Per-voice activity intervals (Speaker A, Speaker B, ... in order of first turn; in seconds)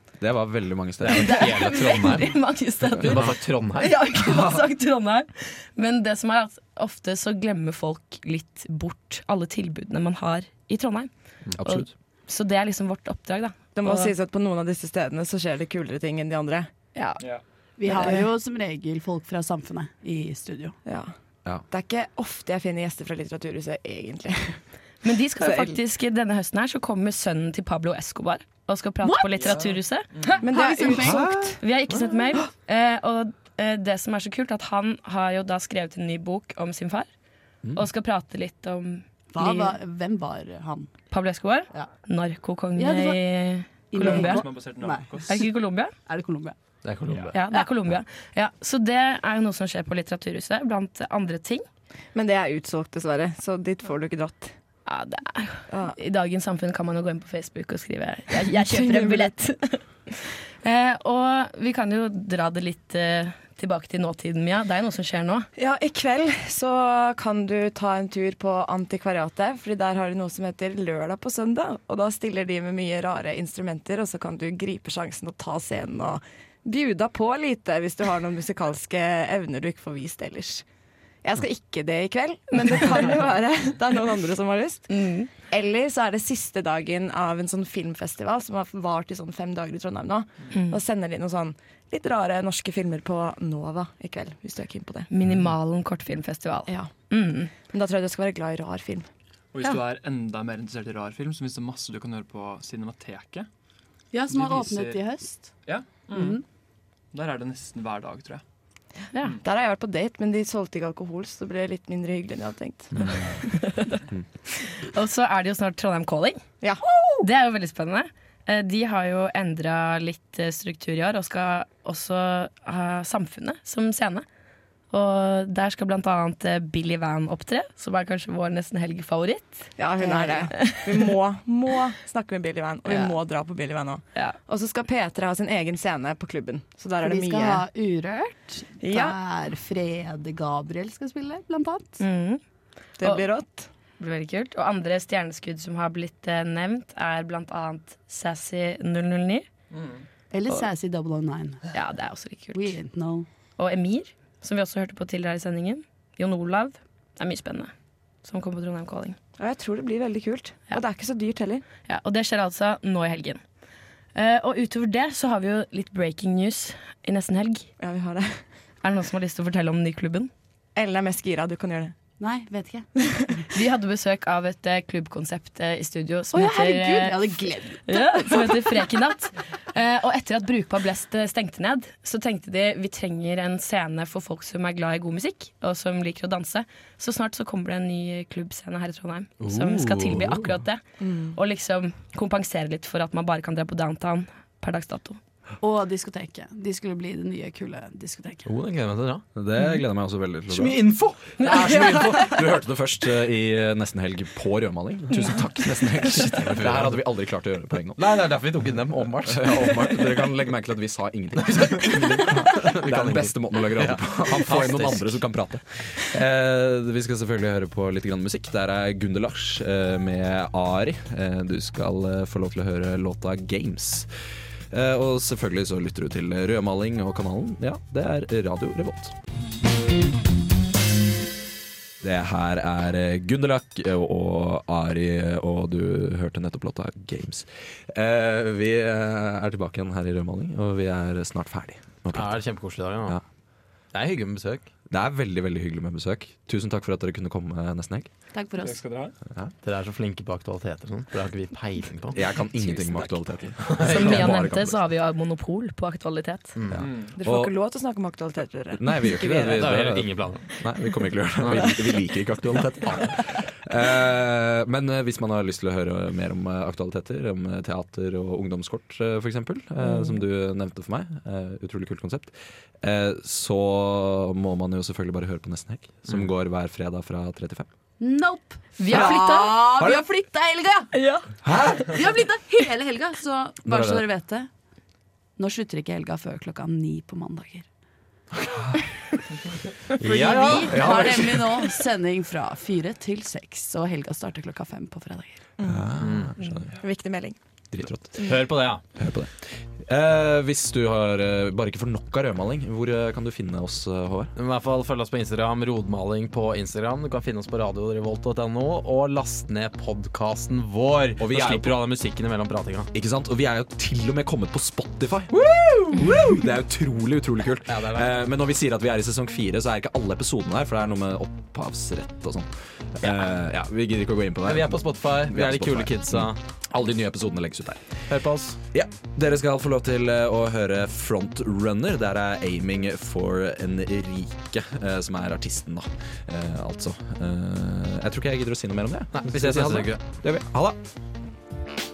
Speaker A: 0.2-1.8, 2.9-3.2, 11.6-11.9, 31.0-31.3, 199.3-200.8, 201.4-208.0, 209.2-224.1, 224.7-229.1, 232.0-242.4, 244.9-248.1, 252.1-254.8, 256.7-257.5, 258.7-277.7, 281.4-281.8, 283.6-284.0, 290.7-291.3, 295.6-296.8, 297.7-304.3, 311.2-311.8, 312.9-327.8, 328.7-340.8
Speaker B: 1.0-2.3, 3.0-4.5, 46.8-47.4, 189.4-190.5, 198.4-199.2, 200.5-202.0, 206.4-206.9, 208.0-209.9, 211.4-215.2, 242.1-243.2, 243.9-244.7, 249.6-252.4, 253.6-254.3, 256.6-256.9, 259.5-260.5, 261.4-261.7, 278.9-279.2, 281.5-281.8, 290.0-291.4, 296.0-296.3, 298.2-298.8, 304.4-312.9, 317.7-318.1, 324.4-326.4, 328.1-328.6, 339.1-340.1
Speaker C: 1.1-11.1, 11.6-14.1, 16.9-17.2, 25.0-30.1, 31.6-37.1, 37.7-39.8, 41.1-44.5, 45.3-45.9, 47.3-51.6, 54.9-65.5, 84.9-85.3, 90.5-90.8, 95.1-97.5, 113.5-114.0, 114.6-116.4, 117.2-124.2, 124.9-131.1, 142.0-142.4, 143.0-143.3, 144.0-149.4, 151.7-152.8, 153.6-157.7, 158.2-159.2, 161.8-163.4, 164.1-167.7, 168.8-170.3, 173.5-190.8, 191.3-195.2, 201.4-201.8, 205.1-205.4, 253.8-256.5, 278.8-279.6, 280.9-281.2
Speaker D: 13.7-16.7, 17.9-18.3, 20.8-21.1, 21.7-24.6, 25.4-25.8, 30.4-31.6, 52.1-54.5, 55.7-56.0, 58.5-59.4, 65.5-80.6, 81.2-95.1, 97.7-99.0, 109.4-113.0, 116.6-117.2, 129.8-137.7, 138.8-139.2, 143.0-143.7, 159.4-161.6, 167.8-168.4, 170.8-171.9, 191.0-191.4, 257.1-259.7, 295.6-295.9, 296.7-297.4
Speaker E: 17.8-20.7, 29.0-29.4, 30.4-31.3, 39.3-40.9, 42.8-43.2, 43.9-45.4, 46.1-46.5, 104.1-105.5, 106.1-106.4, 137.0-142.0, 150.3-151.6, 152.5-153.3, 172.2-172.9, 176.3-178.8, 195.6-198.4, 248.3-248.8, 252.6-253.2, 278.0-280.9, 281.7-284.5, 285.4-287.6, 290.0-295.4
Speaker F: 44.0-45.5, 99.5-103.5, 104.2-105.1, 105.6-106.4, 107.1-108.4, 248.6-249.1, 256.8-257.1